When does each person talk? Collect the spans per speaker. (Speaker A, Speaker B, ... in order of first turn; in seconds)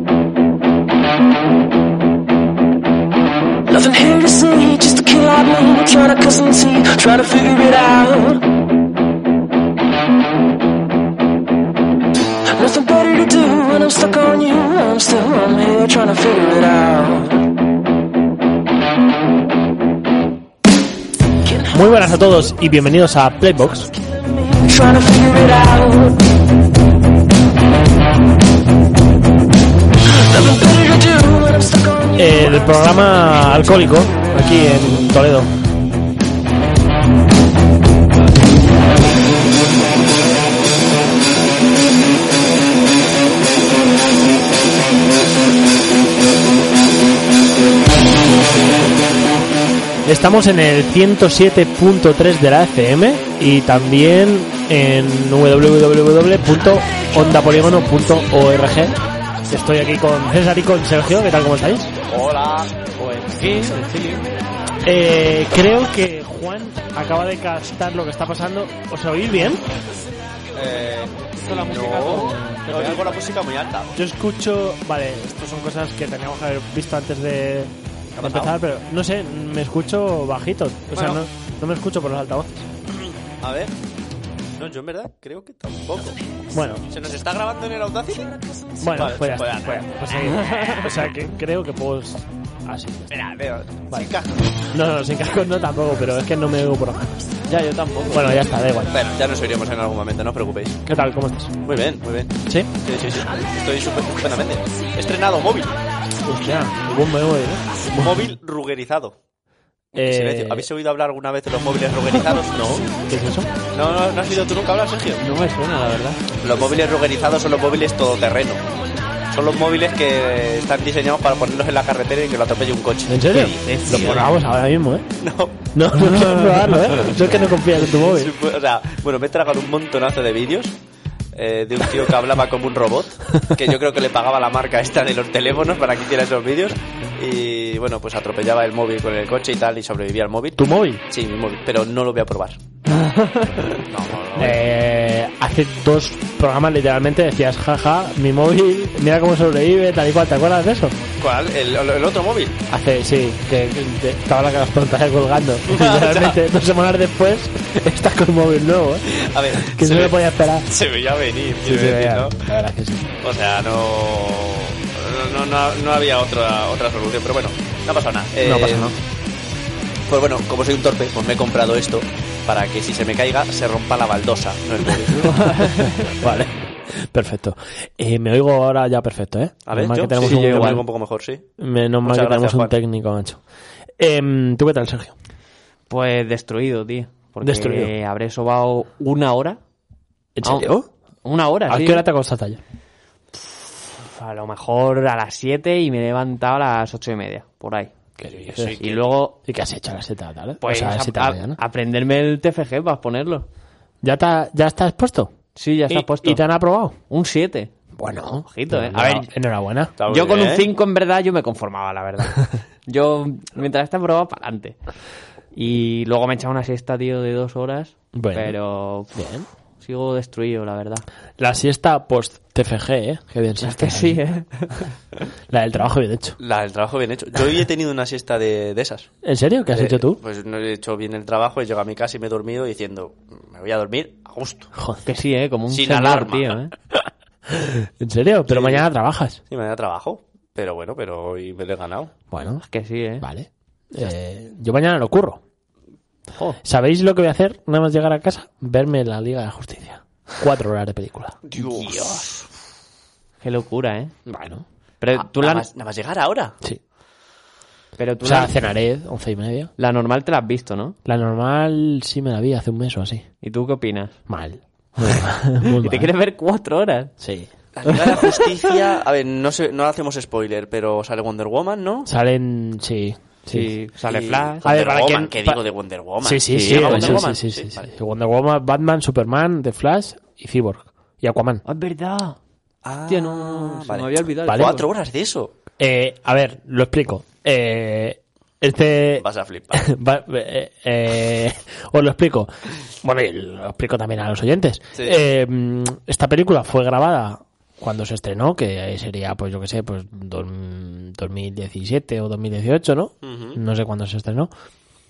Speaker A: 3.7-8.4, 12.5-17.3, 21.4-22.2, 23.9-26.2, 30.1-33.9
Speaker B: 21.7-23.9, 32.2-35.5, 50.0-59.0, 59.5-61.9, 64.8-69.6, 71.4-73.2, 73.9-82.7, 86.5-86.9, 88.8-93.2, 94.7-99.0, 100.9-101.5, 106.2-108.3, 109.9-110.7, 112.5-113.5, 123.1-125.0, 125.7-128.3, 140.6-141.0, 144.4-151.0, 152.7-160.7, 162.3-163.1, 168.4-169.0, 176.0-180.8, 181.6-183.4, 184.0-185.2, 187.4-187.9, 190.3-190.9, 191.7-192.6, 198.2-198.8, 199.4-201.6, 204.0-205.3, 205.9-207.0, 207.9-209.9, 218.1-218.6, 219.1-219.5, 221.4-224.2, 225.5-226.4, 229.2-230.2, 234.7-235.0, 237.5-239.4, 242.3-242.6, 243.2-245.4, 246.6-251.4, 254.3-254.6, 258.2-259.7, 261.1-263.3, 264.3-266.1, 267.2-267.5, 272.1-273.7, 274.6-275.6, 276.2-281.6, 284.5-284.7, 285.8-292.5, 293.0-304.5
Speaker C: 62.1-62.9, 70.5-74.0, 78.2-78.5, 80.9-81.2, 82.9-83.7, 84.6-86.2, 86.8-88.3, 88.9-90.4, 93.1-94.6, 97.6-100.8, 101.6-105.8, 107.9-109.2, 109.9-112.8, 113.7-115.2, 116.4-118.7, 119.3-124.1, 125.2-125.6, 128.0-130.8, 131.3-140.6, 141.1-142.6, 143.7-144.6, 151.2-152.6, 155.7-156.4, 159.2-160.1, 160.7-162.4, 163.2-168.9, 170.1-175.5, 179.7-181.4, 182.0-182.7, 198.3-199.0, 210.0-210.7, 226.4-229.1, 229.7-234.7, 235.7-236.6, 238.5-238.8, 239.5-242.1, 251.5-252.0, 255.2-256.5, 267.8-272.1, 274.1-277.9, 282.8-285.5, 289.2-289.9, 303.2-303.6
Speaker D: 63.0-64.2, 90.2-90.9, 115.2-116.2, 123.3-124.3, 142.9-144.2, 161.7-162.2, 175.3-176.0, 180.2-180.8, 185.9-189.6, 190.4-190.7, 191.2-192.0, 193.9-197.9, 198.8-199.3, 200.6-203.4, 205.6-206.4, 207.1-207.7, 208.5-209.3, 210.1-214.8, 215.5-219.2, 219.8-221.0, 223.6-224.9, 235.1-236.7, 242.7-243.2, 251.6-252.3, 253.4-254.1, 255.0-255.7, 258.0-258.5, 259.8-260.9, 263.4-264.1, 265.6-267.1, 267.9-268.3, 273.5-274.6, 276.5-277.2, 281.6-282.4, 283.1-284.9